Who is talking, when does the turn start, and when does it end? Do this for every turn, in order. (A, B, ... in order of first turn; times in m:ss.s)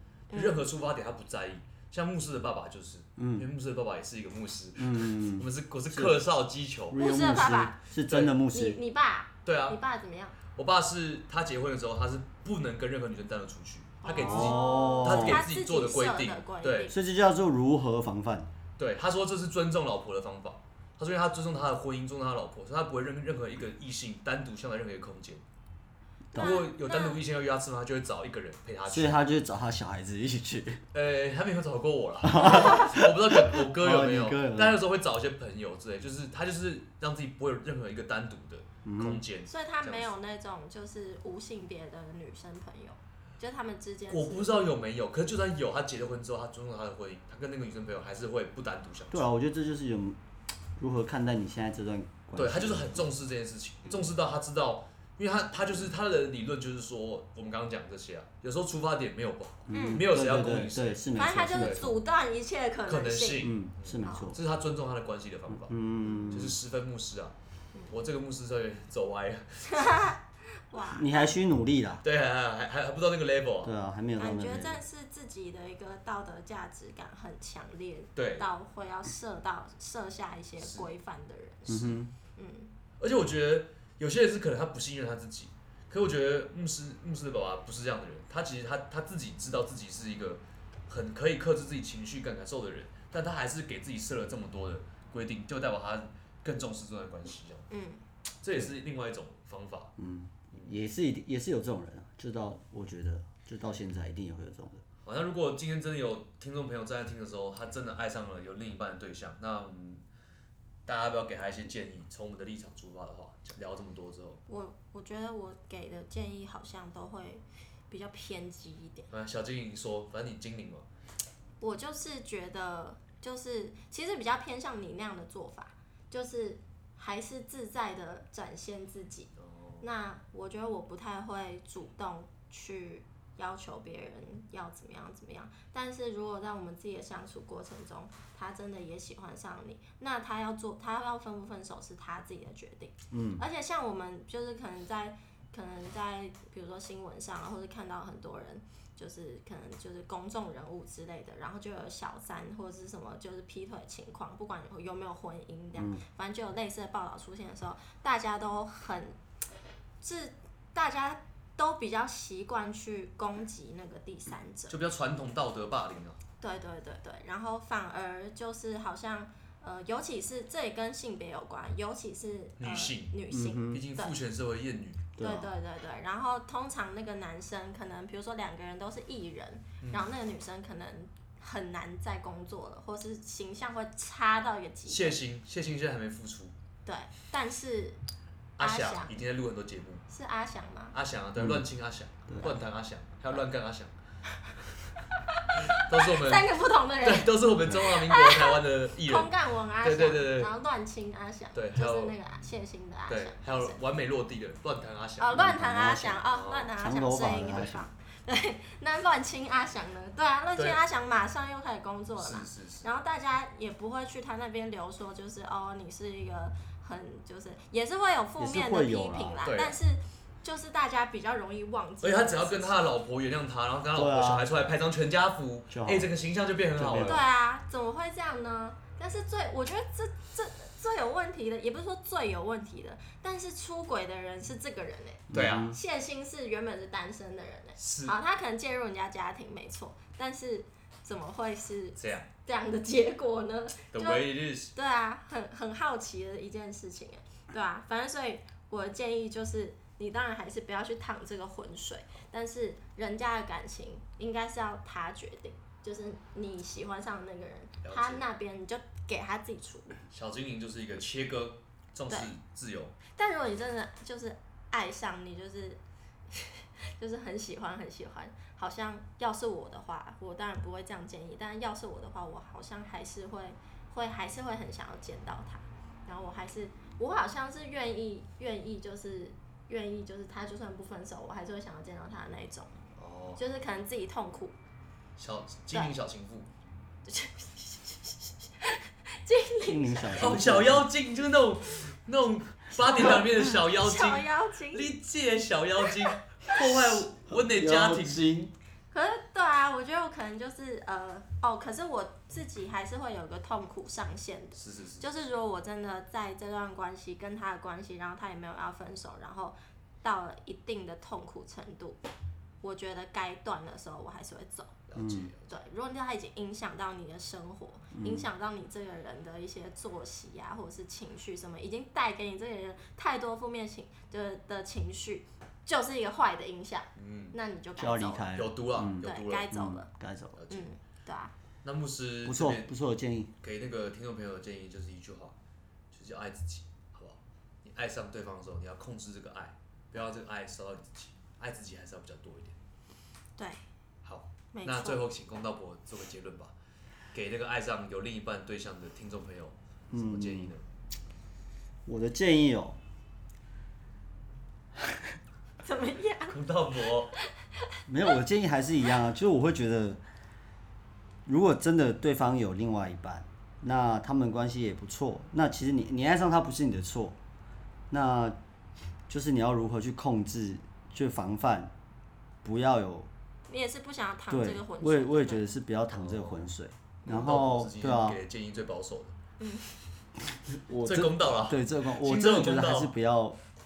0:00.3-0:00.6 A
0:00.3-0:07.0 B
0:03.2-0:03.5 C
0:04.8-0:06.2 C
0:06.9-0:08.8 C
0:06.9-0:07.8 A
0:08.0-0:08.3 B
0:08.5-0:10.4 A
0:09.4-0:09.8 B
0:10.5-0:16.9 B
0:14.0-0:17.0 A
0:14.2-0:15.4 C
0:16.9-0:18.5 C
0:18.8-0:25.4 B
0:26.3-0:27.2 A
0:26.4-0:29.2 B
0:28.8-0:30.8 C
0:30.9-0:40.1 B
0:32.2-0:34.8 C
0:32.4-0:32.9 A
0:38.8-0:39.2 C
0:39.5-0:44.5 A
0:44.1-0:49.2 B
0:49.1-0:50.2 C
0:50.8-0:53.0 C
0:52.3-1:01.0 B
0:59.7-1:01.9 C
0:59.7-1:00.0 A
1:01.2-1:04.3 A
1:01.6-1:01.9 B
1:02.9-1:07.3 B
1:03.4-1:04.4 C
1:05.5-1:06.6 C
1:07.9-1:10.0 B
1:09.7-1:10.2 A
1:10.7-1:11.3 A
1:10.9-1:12.0 C
1:12.0-1:13.7 B
1:13.6-1:14.8 C
1:14.2-1:22.7 A
1:18.2-1:18.5 B
1:20.6-1:20.9 B
1:21.7-1:22.1 C
1:23.0-1:37.6 B
1:37.7-1:38.0 A
1:38.4-1:39.9 B
1:40.0-1:44.8 C
1:45.0-1:50.0 B
1:50.8-1:54.4 B
1:54.5-1:59.1 A
1:59.1-2:00.8 B
2:01.6-2:39.2 A
2:09.4-2:09.8 B
2:23.1-2:23.4 C
2:35.8-2:36.0 C
2:40.0-2:44.8 A
2:44.7-2:46.2 B
2:46.4-2:54.1 A
2:52.6-2:53.1 B
2:53.3-2:53.8 C
2:53.7-2:55.0 B
2:55.2-2:55.5 C
2:55.2-3:05.2 A
2:59.8-3:00.1 B
3:04.9-3:06.5 B
3:06.8-3:08.0 A
3:08.6-3:10.0 B
3:08.6-3:09.1 A
3:10.1-3:10.9 A
3:10.9-3:13.9 B
3:11.4-3:11.6 C
3:12.3-3:12.5 C
3:15.3-3:23.8 A
3:15.6-3:20.5 B
3:21.5-3:22.1 B
3:23.1-3:25.4 B
3:25.2-3:42.9 A
3:25.3-3:26.2 C
3:26.3-3:26.7 B
3:26.8-3:27.8 C
3:32.2-3:32.9 B
3:38.4-3:39.5 C
3:39.4-3:39.8 B
3:42.0-3:47.2 B
3:43.9-3:44.5 C
3:45.7-3:46.1 C
3:46.8-3:47.2 C
3:47.0-4:19.9 A
3:55.3-3:55.7 B
3:55.3-3:55.8 C
3:57.8-3:58.2 B
4:02.0-4:02.3 B
4:03.9-4:04.7 B
4:17.8-4:18.2 B
4:20.1-4:22.9 B
4:23.2-4:42.7 A
4:43.0-4:43.4 B
4:43.4-4:44.5 A
4:45.2-4:46.5 B
4:47.0-4:50.4 A
4:49.6-4:50.9 C
4:50.2-4:58.3 B
4:52.8-4:54.9 A
4:57.2-4:58.5 C
4:58.9-5:12.0 A
5:04.5-5:05.1 B
5:12.6-5:14.8 A
5:14.9-5:15.5 B
5:15.0-5:15.3 C
5:15.5-5:28.3 A
5:17.9-5:18.3 C
5:27.0-5:27.4 B
5:27.8-5:30.4 C
5:28.3-5:29.5 B
5:29.0-5:29.9 A
5:30.4-5:30.7 B
5:30.5-5:31.3 A
5:31.6-5:32.7 B
5:32.2-5:33.3 C
5:33.4-5:35.3 B
5:35.9-5:42.6 B
5:43.4-5:43.6 A
5:44.0-5:46.5 B
5:44.5-5:45.0 A
5:47.1-5:50.6 B
5:49.9-5:50.5 C
5:51.8-5:52.8 C
5:55.6-5:56.4 A
5:56.3-5:57.1 B
5:57.9-6:00.0 C
6:01.2-6:07.2 C
6:07.9-6:08.4 C
6:09.1-6:11.7 C
6:12.4-6:13.1 C
6:13.5-6:15.4 A
6:14.3-6:18.2 C
6:15.9-6:16.5 B
6:17.1-6:19.1 B
6:19.4-6:19.7 A
6:20.5-6:23.4 C
6:20.8-6:22.9 B